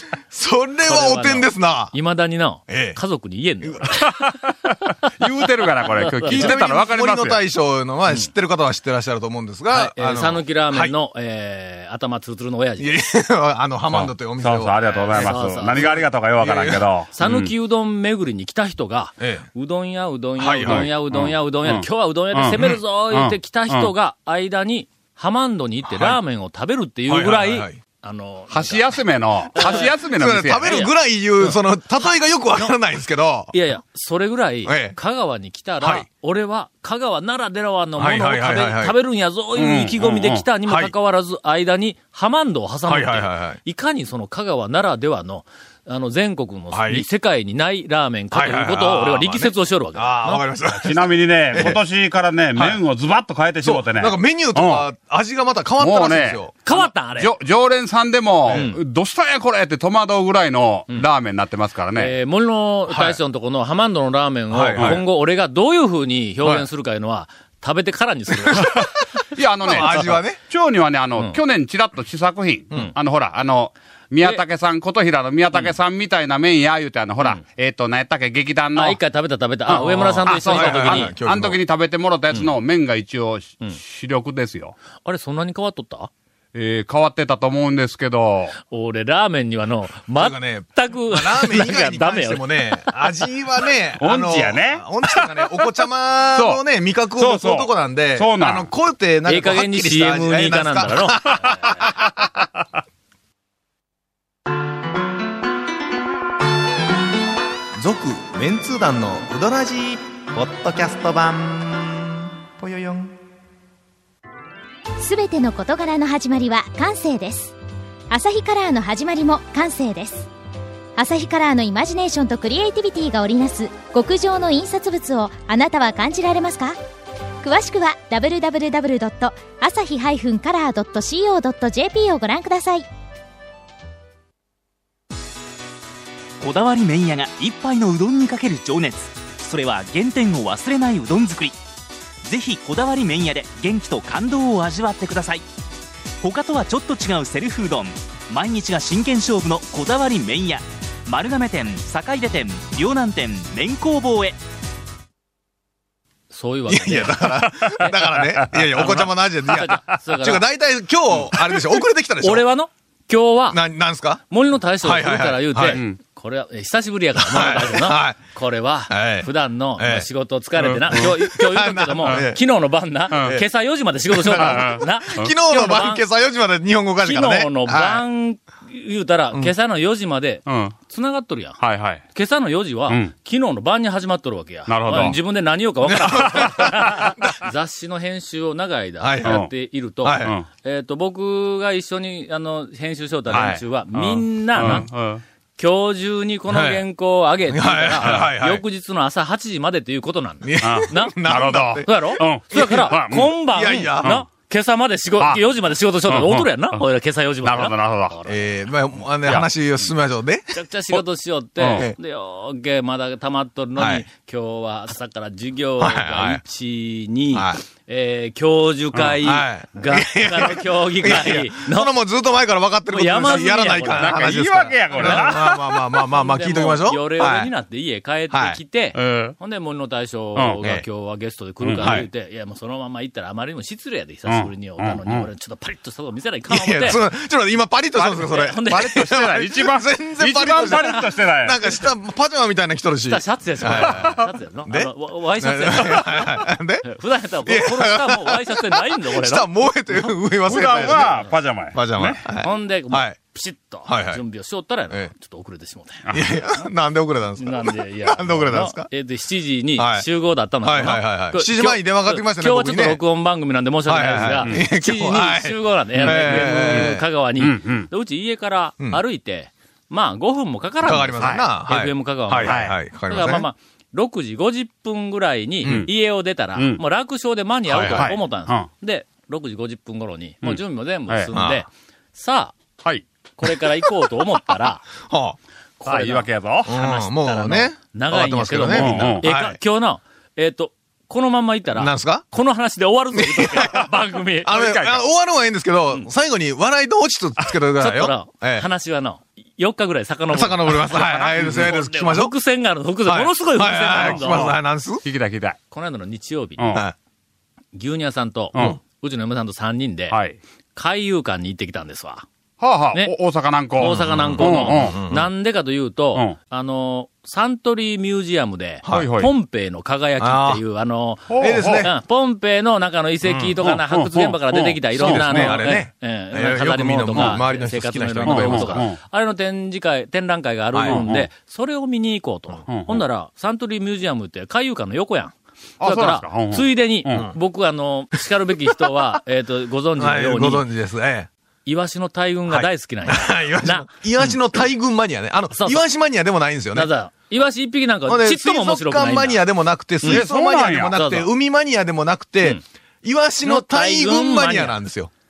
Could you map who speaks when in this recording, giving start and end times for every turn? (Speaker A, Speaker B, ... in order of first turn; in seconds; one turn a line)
Speaker A: 0.3-1.9
Speaker B: 0.9-4.1
Speaker A: 2.7-3.0
Speaker A: 3.6-3.9
Speaker C: 4.0-7.4
Speaker B: 5.8-6.6
Speaker A: 6.3-10.9
Speaker B: 9.7-12.9
Speaker A: 12.8-16.8
Speaker C: 13.9-17.5
Speaker B: 14.8-16.1
Speaker B: 17.1-30.0
Speaker A: 19.2-19.4
Speaker A: 20.4-20.9
Speaker C: 20.6-23.9
Speaker A: 25.8-26.2
Speaker A: 27.1-27.8
Speaker C: 28.5-30.8
Speaker A: 29.6-33.5
Speaker B: 30.6-31.6
Speaker B: 33.5-50.4
Speaker A: 34.6-35.0
Speaker A: 35.8-36.1
Speaker A: 38.0-39.0
Speaker C: 39.5-40.5
Speaker A: 40.6-40.9
Speaker A: 42.9-43.6
Speaker A: 46.7-47.0
Speaker A: 48.3-51.8
Speaker C: 50.3-54.9
Speaker A: 52.5-52.8
Speaker A: 53.6-56.5
Speaker C: 55.8-62.1
Speaker B: 56.6-57.3
Speaker B: 58.5-58.8
Speaker B: 61.9-68.7
Speaker A: 64.5-65.0
Speaker C: 64.8-65.0
Speaker A: 66.4-66.7
Speaker A: 68.4-68.8
Speaker C: 68.7-79.0
Speaker A: 69.6-70.4
Speaker B: 69.7-70.0
Speaker B: 78.7-81.1
Speaker C: 79.7-84.8
Speaker A: 80.4-81.6
Speaker B: 85.0-86.1
Speaker C: 86.5-88.6
Speaker B: 88.7-93.0
Speaker A: 90.2-102.2
Speaker C: 94.0-95.7
Speaker C: 96.3-96.6
Speaker C: 97.2-98.7
Speaker B: 99.2-101.9
Speaker A: 107.8-113.1
Speaker D: 115.0-117.5
Speaker D: 118.1-120.3
Speaker D: 121.0-126.8
Speaker D: 127.4-132.8
Speaker E: 136.4-141.6
Speaker E: 142.2-145.4
Speaker E: 146.2-154.4
Speaker B: 156.3-158.0
Speaker A: 156.7-162.4
Speaker C: 157.8-159.1
Speaker B: 158.8-160.5
Speaker B: 162.2-163.6
Speaker A: 163.5-164.2
Speaker B: 164.3-176.1
Speaker A: 164.8-165.8
Speaker C: 165.7-166.0
Speaker A: 167.2-168.2
Speaker A: 168.9-170.1
Speaker C: 170.6-171.1
Speaker A: 170.9-172.4
Speaker C: 173.1-173.4
Speaker A: 173.1-173.4
Speaker A: 174.1-178.0
Speaker C: 174.3-175.3
Speaker B: 177.0-194.9
Speaker C: 180.4-180.8
Speaker C: 181.6-182.0
Speaker C: 184.7-185.2
Speaker A: 185.8-187.4
Speaker A: 189.0-189.4
Speaker C: 189.2-189.5
Speaker A: 190.0-190.4
Speaker C: 190.2-190.4
Speaker C: 193.3-195.2
Speaker A: 194.6-194.8
Speaker B: 195.6-208.5
Speaker A: 196.5-196.8
Speaker A: 197.5-198.6
Speaker C: 198.0-198.3
Speaker A: 200.4-204.2
Speaker C: 200.6-203.3
Speaker C: 204.0-204.2
Speaker C: 206.1-206.8
Speaker C: 207.4-208.1
Speaker A: 208.2-211.0
Speaker B: 209.2-209.9
Speaker B: 210.5-221.9
Speaker C: 211.6-211.8
Speaker A: 211.7-211.9
Speaker A: 213.8-214.1
Speaker A: 215.8-216.4
Speaker A: 217.3-217.6
Speaker A: 219.2-227.5
Speaker B: 222.9-225.4
Speaker C: 223.9-225.7
Speaker B: 226.1-237.0
Speaker A: 228.3-228.6
Speaker C: 228.9-229.3
Speaker C: 230.3-230.6
Speaker C: 231.6-232.0
Speaker A: 231.8-232.1
Speaker C: 234.2-235.3
Speaker A: 236.5-246.8
Speaker C: 237.9-241.6
Speaker B: 238.3-239.2
Speaker B: 243.1-249.5
Speaker C: 243.7-244.2
Speaker A: 247.4-253.2
Speaker C: 250.4-252.2
Speaker B: 250.8-251.4
Speaker B: 252.4-256.1
Speaker A: 253.8-254.2
Speaker C: 256.1-256.4
Speaker A: 256.1-258.9
Speaker B: 257.4-282.5
Speaker A: 259.7-260.1
Speaker A: 260.6-263.0
Speaker A: 263.9-267.0
Speaker C: 265.9-267.9
Speaker A: 270.8-273.5
Speaker C: 271.2-271.4
Speaker C: 272.4-272.8
Speaker A: 275.6-275.9
Speaker C: 275.6-276.8
Speaker A: 277.7-278.1
Speaker C: 277.7-278.7
Speaker C: 280.4-281.3
Speaker A: 281.3-281.6
Speaker B: 283.4-284.9
Speaker A: 285.1-285.4
Speaker B: 285.8-294.5
Speaker C: 285.9-286.7
Speaker A: 286.6-289.6
Speaker C: 288.7-289.2
Speaker A: 291.7-292.2
Speaker A: 293.1-293.8
Speaker A: 294.4-298.7
Speaker C: 294.5-295.0
Speaker B: 297.8-304.5
Speaker A: 300.3-302.3
Speaker A: 303.0-305.0
Speaker C: 303.9-305.6
Speaker B: 305.7-306.8
Speaker C: 306.6-306.8
Speaker B: 307.7-310.2
Speaker C: 310.1-310.4
Speaker B: 310.7-312.2
Speaker C: 312.6-315.1
Speaker B: 313.8-340.7
Speaker A: 313.8-315.3
Speaker A: 318.8-319.2
Speaker C: 318.9-319.3
Speaker A: 320.2-320.6
Speaker C: 321.3-321.9
Speaker A: 321.4-321.9
Speaker A: 323.2-323.5
Speaker C: 323.6-325.7
Speaker A: 325.0-328.9
Speaker C: 328.2-329.0
Speaker A: 330.7-331.0
Speaker C: 330.8-331.3
Speaker C: 332.7-333.0
Speaker C: 335.8-337.3
Speaker A: 340.0-341.3
Speaker B: 341.6-344.4
Speaker A: 342.5-346.9
Speaker B: 345.5-345.8
Speaker B: 346.7-349.4
Speaker A: 348.1-355.1
Speaker B: 350.0-350.3
Speaker C: 350.0-351.0
Speaker B: 350.9-351.3
Speaker B: 353.4-354.8